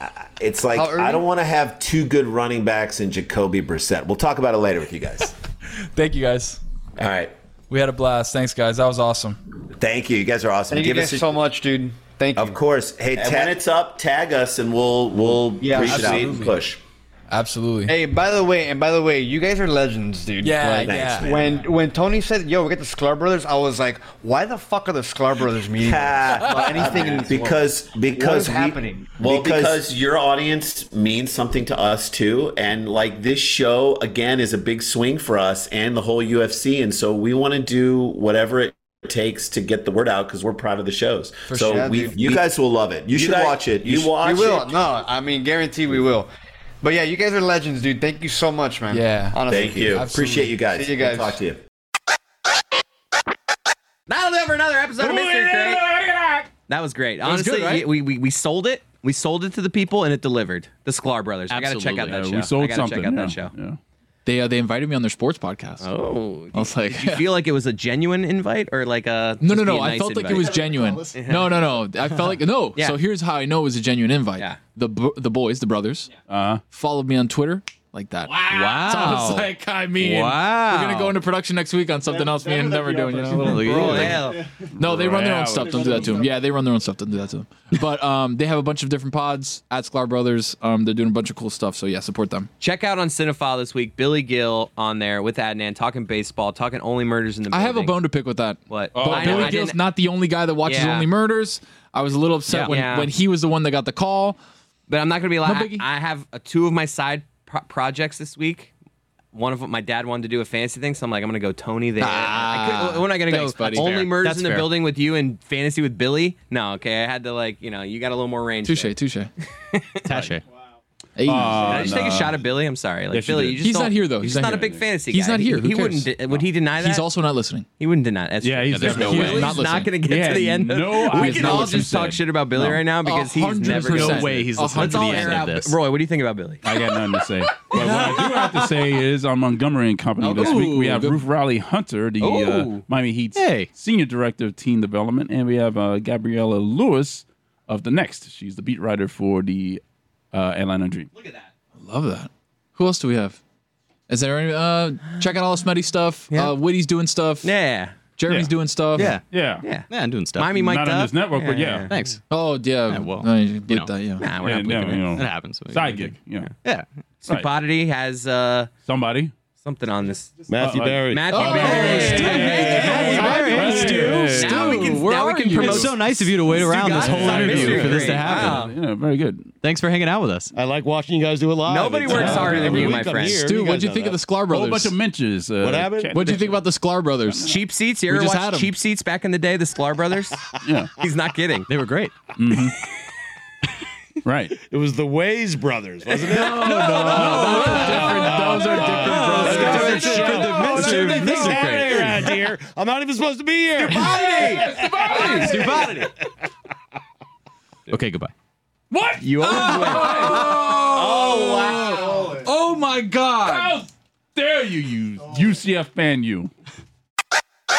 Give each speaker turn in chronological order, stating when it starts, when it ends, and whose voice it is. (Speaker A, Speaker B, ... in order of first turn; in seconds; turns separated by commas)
Speaker A: 0.4-5.3, Speaker B: 0.7-1.2, Speaker C: 5.9-6.6, Speaker D: 7.0-7.3, Speaker C: 7.7-9.4, Speaker A: 9.8-11.3, Speaker B: 10.7-12.6, Speaker A: 12.3-13.6, Speaker D: 13.1-16.8, Speaker B: 15.6-16.2, Speaker A: 15.7-16.3, Speaker C: 15.8-16.6, Speaker C: 17.3-17.9, Speaker B: 17.9-29.2, Speaker C: 20.4-21.2, Speaker A: 20.9-21.6, Speaker D: 20.9-21.4, Speaker A: 25.8-29.8, Speaker D: 26.7-27.6, Speaker D: 29.2-44.7, Speaker C: 41.5-42.1, Speaker A: 41.5-44.6, Speaker B: 41.7-42.1, Speaker B: 44.1-46.3, Speaker B: 46.8-51.4, Speaker C: 48.9-50.5, Speaker A: 49.5-51.6, Speaker E: 54.1-56.0, Speaker F: 55.0-56.5, Speaker E: 56.6-63.5, Speaker G: 57.2-57.6, Speaker G: 61.5-62.4, Speaker F: 62.0-63.8, Speaker H: 64.2-65.9, Speaker E: 65.8-71.6, Speaker H: 66.5-67.3, Speaker H: 69.4-76.1, Speaker E: 72.7-73.0, Speaker F: 76.3-76.6, Speaker H: 76.7-92.5, Speaker G: 78.3-81.2, Speaker I: 82.7-83.7, Speaker G: 83.3-84.2, Speaker E: 83.7-84.4, Speaker F: 84.8-86.2, Speaker E: 92.6-98.0, Speaker H: 97.5-104.4, Speaker E: 98.7-99.8, Speaker F: 98.9-99.6, Speaker E: 100.6-101.1, Speaker G: 102.5-102.8, Speaker E: 102.7-103.1, Speaker E: 104.9-108.7, Speaker H: 105.4-105.8, Speaker E: 109.3-119.0, Speaker H: 112.0-114.2, Speaker G: 113.3-114.7, Speaker H: 118.6-119.3, Speaker E: 119.7-120.2, Speaker G: 120.1-120.4, Speaker H: 121.2-122.0, Speaker F: 121.2-122.5, Speaker E: 121.5-127.1, Speaker F: 123.1-123.6, Speaker H: 123.6-127.7, Speaker E: 127.8-136.8, Speaker F: 128.4-132.8, Speaker G: 128.7-129.5, Speaker H: 128.9-132.0, Speaker H: 132.6-135.7, Speaker G: 133.7-135.7, Speaker F: 133.7-133.9, Speaker F: 136.6-151.1, Speaker E: 137.7-138.1, Speaker G: 138.1-138.4, Speaker E: 140.2-140.8, Speaker H: 140.2-141.2, Speaker E: 142.2-142.8, Speaker G: 143.3-143.7, Speaker E: 151.1-151.5, Speaker H: 151.8-153.4, Speaker H: 154.1-157.5, Speaker E: 157.4-158.0, Speaker H: 158.2-159.2, Speaker F: 158.3-159.7, Speaker G: 158.9-160.7, Speaker E: 159.6-162.1, Speaker F: 160.5-161.9, Speaker G: 161.9-162.2, Speaker H: 162.3-164.3, Speaker G: 162.9-164.0, Speaker E: 164.2-165.1, Speaker F: 164.3-166.5, Speaker G: 164.6-166.8, Speaker E: 167.2-168.7, Speaker F: 168.8-169.3, Speaker E: 169.6-178.8, Speaker I: 170.5-171.3, Speaker F: 170.5-175.0, Speaker H: 171.3-176.1, Speaker G: 172.3-174.9, Speaker G: 175.5-178.7, Speaker F: 176.5-179.5, Speaker H: 177.1-178.4, Speaker G: 179.6-180.5, Speaker I: 180.5-184.2, Speaker E: 181.7-183.5, Speaker F: 182.1-183.0, Speaker H: 182.2-182.5, Speaker H: 183.3-184.9, Speaker F: 184.5-186.6, Speaker I: 185.6-186.2, Speaker H: 186.1-187.5, Speaker E: 187.4-190.4, Speaker H: 188.1-188.7, Speaker F: 190.6-190.9, Speaker E: 191.0-191.7, Speaker G: 191.7-192.2, Speaker F: 192.4-192.8, Speaker F: 194.2-194.5, Speaker I: 194.6-206.0, Speaker H: 196.1-201.8, Speaker F: 196.3-202.3, Speaker G: 197.3-197.7, Speaker G: 199.3-202.3, Speaker E: 199.4-200.1, Speaker H: 203.8-205.4, Speaker F: 204.0-205.9, Speaker G: 205.1-206.1, Speaker G: 207.9-208.3, Speaker F: 208.9-210.5, Speaker E: 209.2-210.4, Speaker H: 209.4-213.8, Speaker I: 210.9-212.4, Speaker F: 211.2-212.4, Speaker F: 213.4-216.5